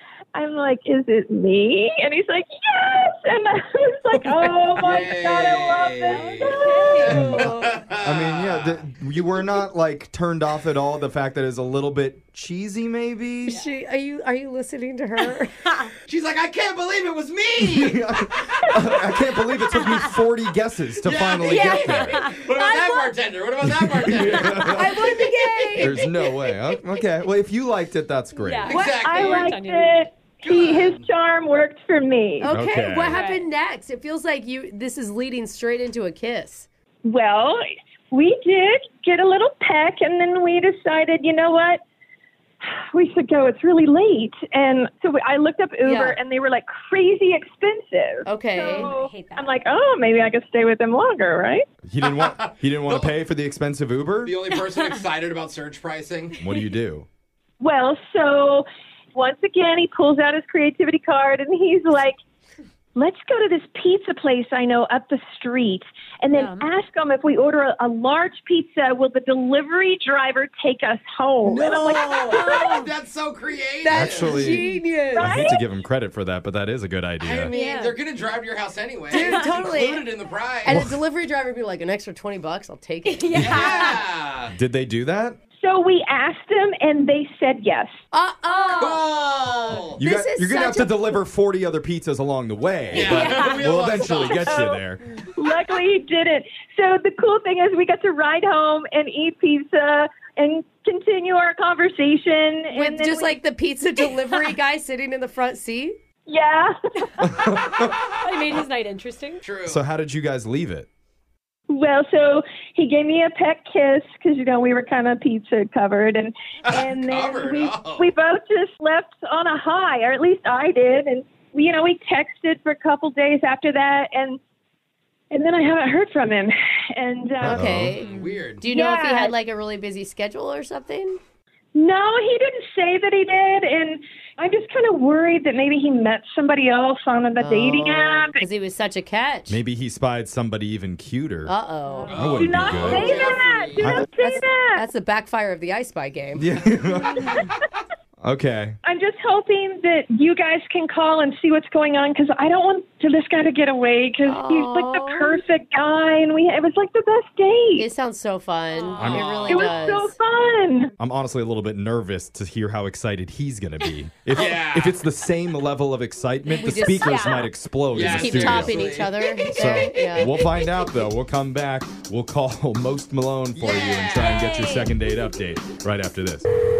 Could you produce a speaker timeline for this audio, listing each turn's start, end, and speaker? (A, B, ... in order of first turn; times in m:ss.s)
0:00.3-0:07.1 A
0:04.1-0:04.6 B
0:04.8-0:08.8 C
0:06.0-0:07.5 D
0:06.9-0:07.8 B
0:07.1-0:13.6 E
0:13.5-0:15.7 B
0:16.1-0:18.0 C
0:17.6-0:22.3 E
0:21.0-0:26.0 C
0:21.4-0:23.2 D
0:23.7-0:24.9 E
0:24.6-0:26.0 B
0:25.8-0:28.7 E
0:28.4-0:30.0 D
0:28.7-0:29.7 C
0:28.8-0:32.5 A
0:30.4-0:31.1 C
0:32.4-0:36.7 B
0:32.5-0:33.2 E
0:33.1-0:33.5 D
0:37.0-0:41.8 A
0:42.6-0:51.7 A
0:45.8-0:46.2 B
0:48.2-0:48.9 B
0:48.6-0:49.6 D
0:51.9-0:54.4 E
0:52.0-0:53.1 C
0:54.2-0:56.4 C
0:54.6-0:55.0 D
0:56.4-0:57.1 E
0:57.6-1:02.2 A
1:03.0-1:12.6 A
1:06.3-1:06.7 D
1:11.4-1:12.5 B
1:12.2-1:12.9 D
1:12.2-1:14.5 C
1:13.8-1:15.5 B
1:13.9-1:17.5 E
1:15.2-1:15.6 A
1:17.2-1:20.8 C
1:17.5-1:18.0 D
1:19.1-1:20.1 B
1:19.2-1:19.5 D
1:20.6-1:23.4 B
1:20.7-1:21.0 E
1:23.1-1:24.0 D
1:23.3-1:23.7 E
1:23.4-1:24.5 C
1:24.5-1:25.4 E
1:25.6-1:28.0 A
1:28.1-1:29.1 B
1:28.5-1:29.0 D
1:28.8-1:30.0 C
1:29.9-1:31.2 B
1:30.0-1:35.0 E
1:32.9-1:34.7 C
1:32.9-1:33.7 D
1:34.5-1:34.8 A
1:35.4-1:43.4 A
1:42.7-1:46.0 B
1:46.3-1:47.3 A
1:47.2-1:48.0 E
1:48.2-1:49.4 D
1:49.4-1:49.8 C
1:49.7-1:50.9 E
1:51.7-2:04.4 A
1:56.7-1:58.2 C
2:05.3-2:07.7 A
2:07.4-2:08.1 B
2:07.4-2:08.0 E
2:08.0-2:08.7 C
2:08.6-2:11.2 B
2:08.6-2:09.4 A
2:11.8-2:18.4 A
2:17.4-2:19.6 B
2:19.5-2:21.5 E
2:21.5-2:22.1 B
2:21.9-2:22.2 D
2:22.1-2:24.1 C
2:22.2-2:23.1 E
2:22.4-2:24.8 A
2:22.9-2:23.3 B
2:23.8-2:24.1 E
2:24.1-2:26.5 B
2:26.4-2:27.4 E
2:28.2-2:28.8 E
2:28.8-2:37.9 A
2:34.2-2:35.4 B
2:37.8-2:40.2 B
2:38.7-2:39.1 D
2:39.0-2:39.7 E
2:39.0-2:39.8 C
2:39.5-2:40.9 A
2:41.0-2:48.9 E
2:44.3-2:45.0 C
2:46.6-2:47.4 B
2:46.9-2:47.5 D
2:47.9-2:49.3 C
2:48.0-2:50.4 B
2:49.5-2:56.5 E
2:53.6-2:54.5 C
2:54.2-2:54.9 D